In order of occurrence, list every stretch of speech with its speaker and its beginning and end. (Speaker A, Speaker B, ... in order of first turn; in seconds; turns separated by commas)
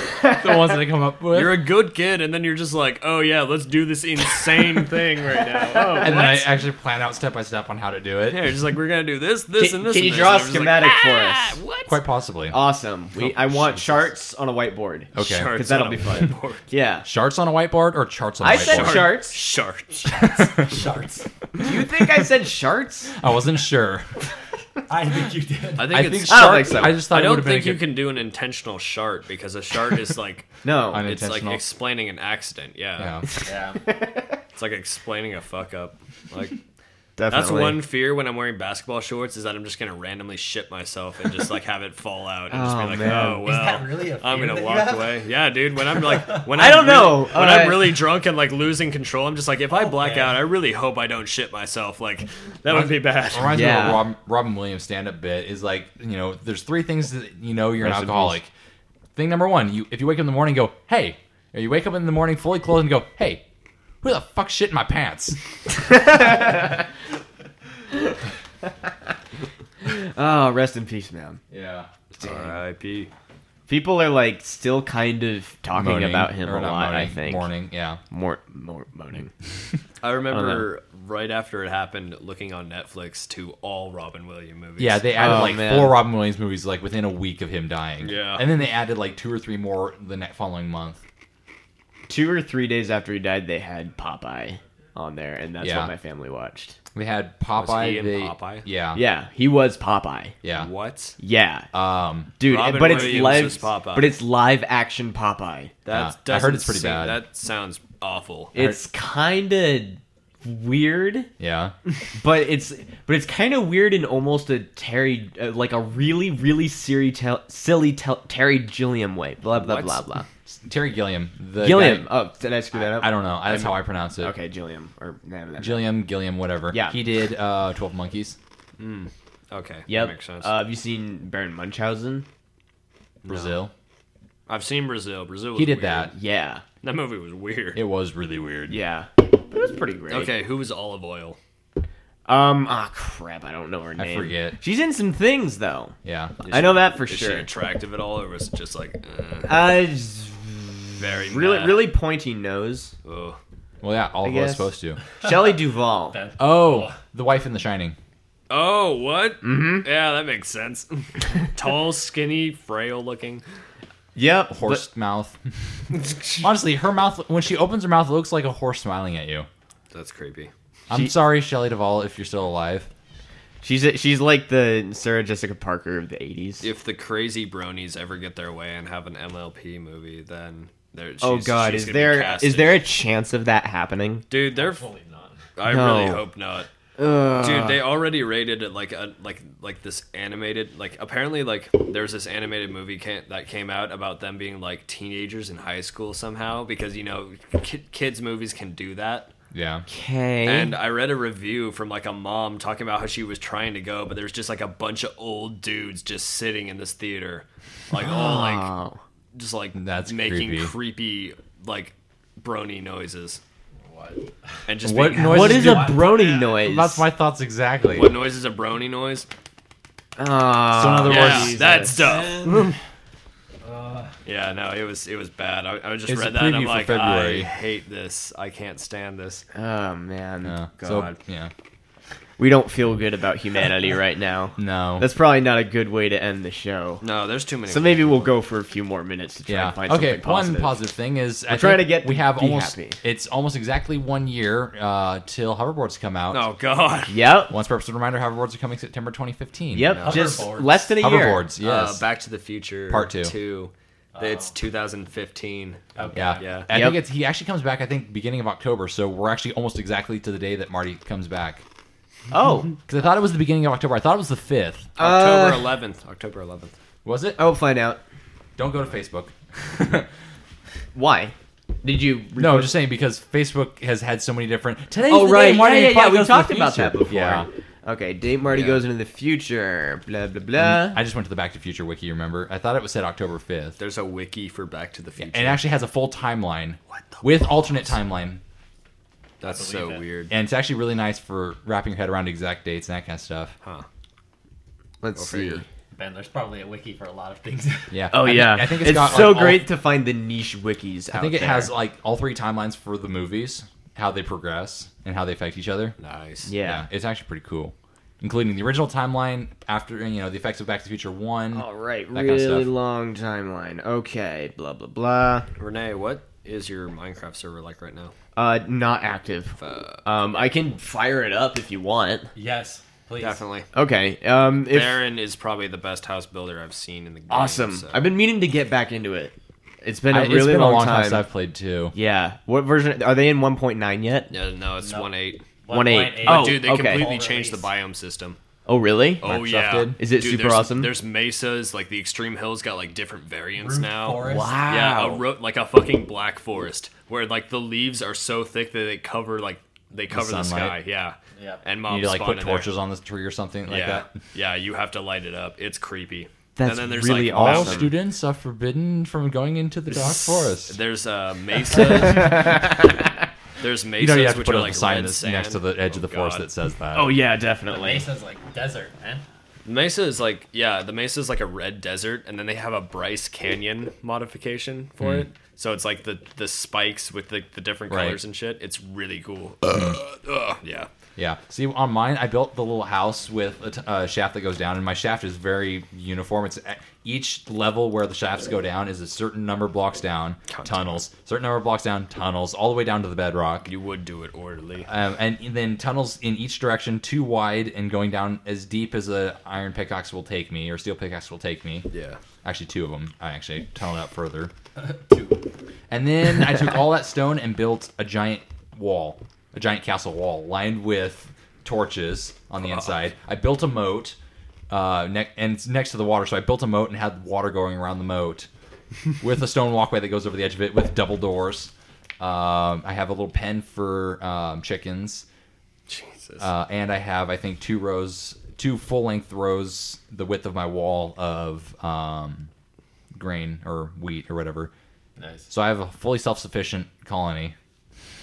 Speaker A: 0.3-1.7, Speaker B: 1.3-6.5, Speaker C: 5.5-6.3, Speaker A: 6.0-8.5, Speaker B: 8.3-12.0, Speaker C: 9.6-11.6, Speaker A: 11.8-12.6, Speaker C: 12.5-17.1, Speaker B: 13.7-13.9, Speaker A: 15.1-15.6, Speaker B: 15.2-16.6, Speaker A: 17.0-19.1, Speaker C: 18.4-19.4, Speaker B: 18.5-20.3, Speaker D: 20.0-21.3, Speaker C: 21.6-23.1, Speaker A: 23.2-24.1, Speaker D: 24.9-26.0, Speaker B: 25.8-30.5, Speaker A: 25.9-27.9, Speaker C: 26.3-27.0, Speaker C: 30.6-31.1, Speaker A: 30.9-31.6, Speaker B: 31.0-33.2, Speaker A: 33.0-33.3, Speaker D: 33.4-33.8, Speaker C: 33.9-34.4, Speaker B: 34.5-36.6, Speaker C: 37.2-37.8, Speaker B: 37.3-53.9, Speaker C: 42.5-43.4, Speaker D: 43.4-45.2, Speaker C: 46.5-48.0, Speaker D: 49.7-50.4, Speaker A: 52.6-58.5, Speaker C: 53.5-54.0, Speaker C: 57.8-58.4, Speaker A: 59.1-63.4, Speaker A: 64.0-65.4, Speaker C: 66.0-66.7, Speaker C: 69.8-71.4, Speaker A: 71.5-71.9, Speaker B: 72.1-73.1, Speaker C: 72.2-72.5, Speaker C: 73.7-77.5, Speaker A: 75.7-78.0, Speaker C: 78.1-79.3, Speaker B: 80.0-85.5, Speaker C: 80.3-80.7, Speaker A: 84.8-91.0, Speaker C: 85.2-86.0, Speaker B: 88.0-88.5, Speaker C: 92.1-96.8, Speaker A: 95.6-95.9, Speaker A: 96.9-99.0, Speaker B: 97.5-98.7, Speaker C: 98.9-100.3, Speaker A: 100.4-100.7, Speaker B: 100.5-101.2, Speaker C: 101.2-101.7, Speaker A: 101.7-102.3, Speaker C: 102.4-105.7, Speaker B: 102.4-104.2, Speaker A: 102.8-103.5, Speaker B: 105.8-108.5, Speaker A: 105.9-107.2, Speaker C: 108.5-111.3, Speaker A: 108.5-108.8, Speaker A: 111.4-111.7, Speaker C: 112.2-120.3, Speaker B: 119.5-120.0, Speaker A: 120.5-122.1, Speaker C: 121.6-125.9, Speaker A: 122.7-124.3, Speaker A: 125.6-128.4, Speaker C: 126.7-127.0, Speaker B: 128.8-130.5, Speaker C: 129.9-132.2, Speaker B: 133.2-133.6, Speaker A: 133.2-133.7, Speaker B: 134.5-136.1, Speaker A: 135.5-136.1, Speaker C: 136.1-136.6, Speaker B: 136.8-137.8, Speaker A: 137.7-138.8, Speaker C: 138.7-140.3, Speaker B: 140.1-141.4, Speaker C: 142.3-147.5, Speaker A: 144.0-144.6, Speaker A: 146.0-146.4, Speaker B: 146.5-149.8, Speaker C: 149.4-152.9, Speaker B: 151.0-151.9, Speaker B: 153.0-153.4, Speaker A: 153.8-155.0, Speaker C: 154.2-154.7, Speaker C: 155.2-156.2, Speaker D: 156.1-157.0, Speaker A: 156.4-158.0, Speaker B: 158.5-163.4, Speaker C: 159.4-159.9, Speaker C: 164.1-164.8, Speaker A: 164.5-165.4, Speaker B: 165.9-166.4, Speaker A: 166.4-169.5, Speaker B: 169.9-170.5, Speaker A: 170.9-172.9, Speaker C: 173.6-176.7, Speaker B: 176.6-182.9, Speaker C: 181.2-184.3, Speaker B: 184.3-184.8, Speaker D: 184.5-185.4, Speaker B: 185.6-186.7, Speaker C: 185.7-186.2, Speaker C: 187.0-187.8, Speaker B: 187.4-199.3, Speaker A: 199.5-199.8, Speaker C: 199.9-200.7, Speaker B: 200.4-208.7, Speaker C: 207.9-209.0, Speaker B: 209.3-213.4, Speaker A: 209.8-210.7, Speaker D: 213.8-214.3, Speaker B: 214.7-215.9, Speaker A: 214.8-216.0, Speaker D: 215.1-216.6, Speaker C: 215.3-217.1, Speaker A: 216.6-218.1, Speaker B: 217.9-219.3, Speaker C: 220.2-222.0, Speaker A: 220.7-222.0, Speaker B: 221.1-222.8, Speaker D: 221.8-222.7, Speaker D: 223.6-224.1, Speaker B: 224.2-229.4, Speaker A: 226.1-227.5, Speaker C: 229.5-231.1, Speaker A: 230.4-231.5, Speaker C: 232.4-237.0, Speaker A: 234.6-235.1, Speaker B: 237.0-238.3, Speaker C: 237.7-240.8, Speaker A: 239.5-246.4, Speaker C: 241.5-243.0, Speaker B: 246.3-247.2, Speaker C: 247.1-247.5, Speaker A: 247.5-250.0, Speaker C: 249.7-251.4, Speaker B: 249.9-250.4, Speaker D: 250.0-250.9, Speaker A: 251.0-252.0, Speaker B: 251.6-256.7, Speaker A: 252.9-253.3, Speaker D: 254.1-254.5, Speaker D: 255.9-256.6, Speaker A: 256.1-261.6, Speaker C: 256.7-257.0, Speaker C: 262.3-262.8, Speaker A: 262.9-264.9, Speaker B: 265.0-266.7, Speaker C: 265.0-265.7, Speaker A: 267.0-267.4, Speaker C: 267.4-268.0, Speaker A: 268.6-270.1, Speaker C: 270.9-272.7, Speaker A: 272.4-277.5, Speaker C: 275.1-281.0, Speaker B: 278.5-278.8, Speaker A: 280.6-283.8, Speaker B: 283.8-285.6, Speaker A: 285.2-288.4, Speaker B: 286.9-287.7, Speaker B: 289.4-290.3, Speaker D: 289.4-290.1, Speaker A: 290.3-293.6, Speaker C: 295.0-295.6, Speaker B: 295.1-295.6, Speaker D: 295.9-298.0, Speaker A: 297.9-299.7, Speaker C: 298.1-301.7, Speaker A: 301.1-305.9, Speaker B: 306.0-306.5, Speaker C: 306.4-306.9, Speaker A: 306.6-312.7, Speaker C: 311.5-315.4, Speaker B: 315.6-318.1, Speaker C: 318.4-322.3, Speaker B: 319.6-320.4, Speaker D: 322.4-323.4, Speaker B: 323.2-323.7, Speaker C: 323.7-325.0, Speaker B: 324.7-328.1, Speaker C: 327.3-331.2, Speaker A: 330.1-331.9, Speaker C: 331.9-334.3, Speaker B: 334.3-335.4, Speaker D: 334.8-337.7, Speaker C: 335.7-337.1, Speaker B: 336.2-338.4, Speaker C: 338.6-339.3, Speaker B: 339.2-352.7, Speaker A: 339.2-340.0, Speaker C: 340.0-340.9, Speaker D: 343.6-344.6, Speaker C: 344.2-345.2, Speaker A: 350.1-350.8, Speaker D: 351.4-351.6, Speaker A: 351.9-354.1, Speaker B: 353.7-357.9, Speaker C: 356.6-357.9, Speaker A: 357.0-360.8, Speaker B: 359.9-362.8, Speaker C: 362.1-363.1, Speaker B: 363.6-366.4, Speaker A: 364.0-367.1, Speaker C: 366.9-368.1, Speaker D: 367.7-369.2, Speaker B: 369.6-380.9, Speaker A: 375.0-375.3, Speaker A: 377.9-378.2, Speaker A: 379.7-380.0, Speaker A: 381.2-393.7, Speaker B: 390.5-391.0, Speaker B: 393.6-394.9, Speaker A: 394.9-401.9, Speaker B: 401.9-402.2, Speaker A: 402.4-404.5, Speaker D: 404.8-405.4, Speaker A: 405.9-414.2, Speaker B: 412.6-412.9, Speaker A: 414.7-418.5, Speaker A: 419.2-425.2, Speaker B: 425.9-426.5, Speaker A: 426.4-432.5, Speaker A: 433.1-434.7, Speaker D: 435.2-435.5, Speaker A: 435.5-437.5